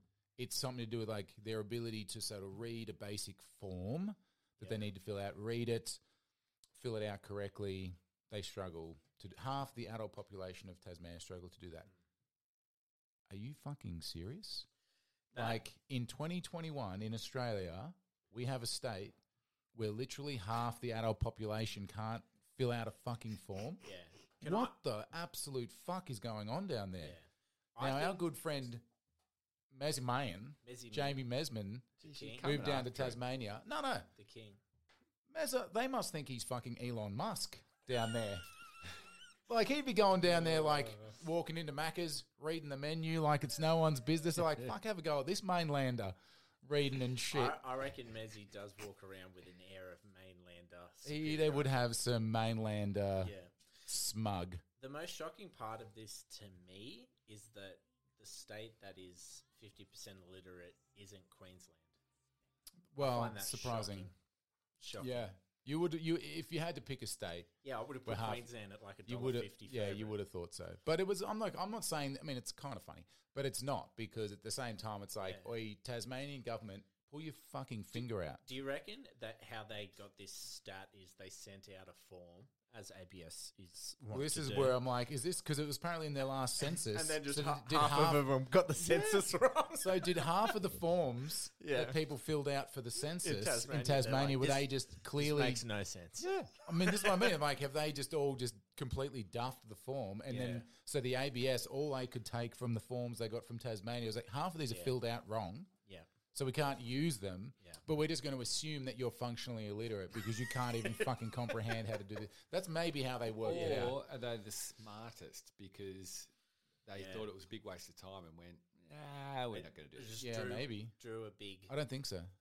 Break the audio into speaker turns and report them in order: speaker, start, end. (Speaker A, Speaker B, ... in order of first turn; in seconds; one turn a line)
Speaker A: 0.4-6.0
Speaker A: 6.7-11.9
Speaker A: 13.3-14.7
Speaker B: 15.3-15.6
Speaker A: 15.3-19.2
Speaker A: 19.7-23.8
Speaker B: 23.8-24.7
Speaker A: 24.4-27.2
Speaker B: 27.0-28.2
Speaker A: 27.8-28.9
Speaker A: 29.7-34.1
Speaker B: 30.6-31.2
Speaker B: 32.0-32.5
Speaker C: 32.0-33.2
Speaker B: 34.1-34.6
Speaker A: 35.3-38.5
Speaker A: 39.5-47.6
Speaker B: 40.4-41.1
Speaker B: 47.3-51.7
Speaker A: 51.0-54.6
Speaker B: 53.2-53.5
Speaker B: 54.8-61.9
Speaker A: 62.9-64.1
Speaker B: 63.0-64.1
Speaker B: 64.8-65.2
Speaker A: 65.0-67.5
Speaker B: 67.6-70.2
Speaker A: 68.0-68.5
Speaker A: 69.0-78.4
Speaker B: 75.2-75.5
Speaker B: 78.4-84.8
Speaker A: 84.1-95.6
Speaker B: 86.6-90.6
Speaker B: 91.6-92.0
Speaker B: 93.2-97.3
Speaker A: 96.2-105.7
Speaker B: 100.3-100.7
Speaker A: 106.3-114.0
Speaker B: 110.7-111.8
Speaker C: 113.4-116.3
Speaker B: 113.5-113.9
Speaker C: 116.8-120.2
Speaker B: 116.9-117.3
Speaker B: 119.5-121.7
Speaker A: 120.2-120.9
Speaker A: 121.7-122.3